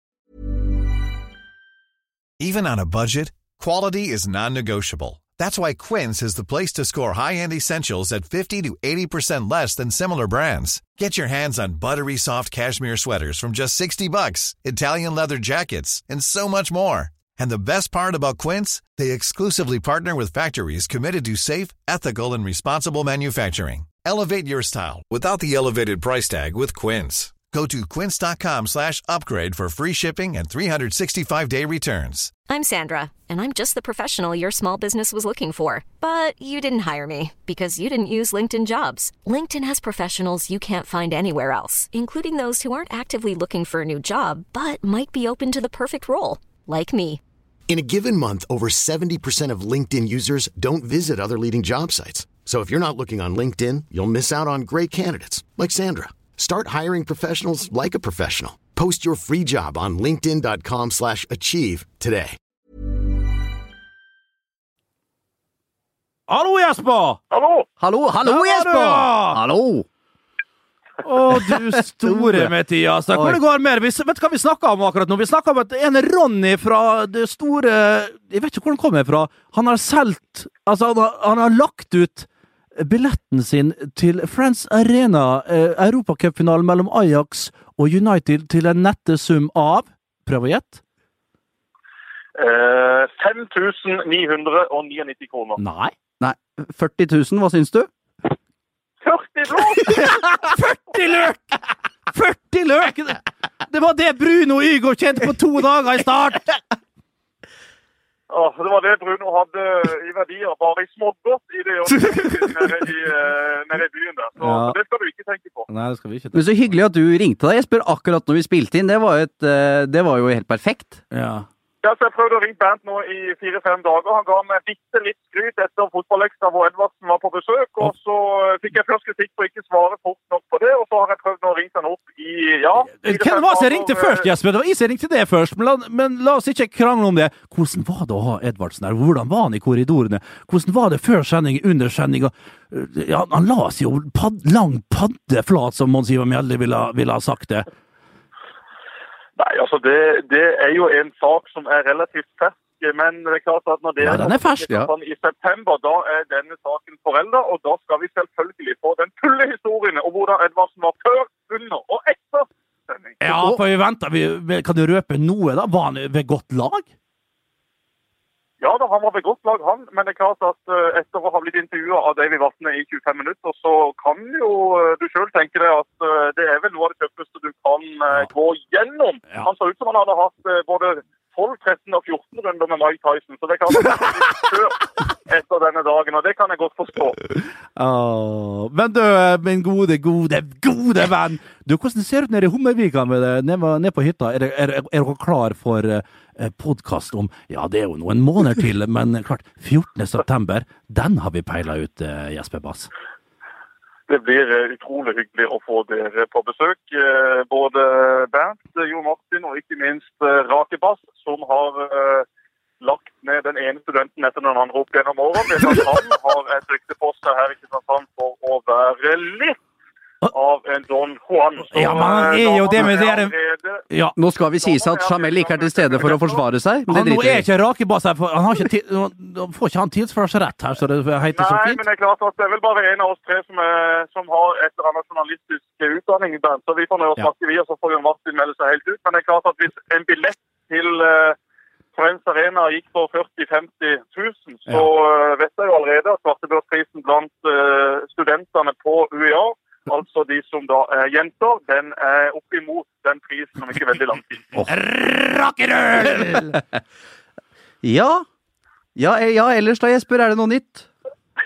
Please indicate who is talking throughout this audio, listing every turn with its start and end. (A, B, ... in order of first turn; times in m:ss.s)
0:02.4-0:32.3 A
0:32.5-0:47.2 B
0:47.7-1:02.4 C
1:06.3-1:07.2 D
1:07.3-1:07.7 E
1:07.8-1:09.9 F
1:08.2-1:09.4 D
1:11.0-1:30.8 D
1:11.4-1:12.5 F
1:13.1-1:13.4 F
1:32.4-1:35.6 E
1:35.6-1:35.9 D
1:36.2-1:37.9 F
1:39.0-1:40.1 E
1:39.8-1:41.6 D
1:42.1-1:46.6 D
1:48.3-1:55.7 E
1:54.4-1:54.8 D
1:55.7-1:56.7 D
1:56.3-2:01.0 F
2:01.1-2:01.5 D
2:01.8-2:14.3 E
2:13.0-2:27.7 D
2:29.4-2:43.2 E
2:34.0-2:34.8 D
2:34.1-2:34.9 F
2:43.2-2:46.9 D
2:43.2-2:43.6 F
2:48.6-3:07.2 E
3:07.7-3:22.9 D
3:24.1-3:32.2 E
3:32.8-3:39.6 E
3:40.3-3:43.8 E
3:41.7-3:43.3 D
3:43.9-3:44.1 D
3:44.2-3:47.5 F
3:44.6-3:46.4 E
3:46.9-3:51.8 D
3:51.4-4:01.4 E
4:01.9-4:14.6 E
4:14.6-4:16.6 D
4:17.8-4:18.2 F
4:19.0-4:20.9 F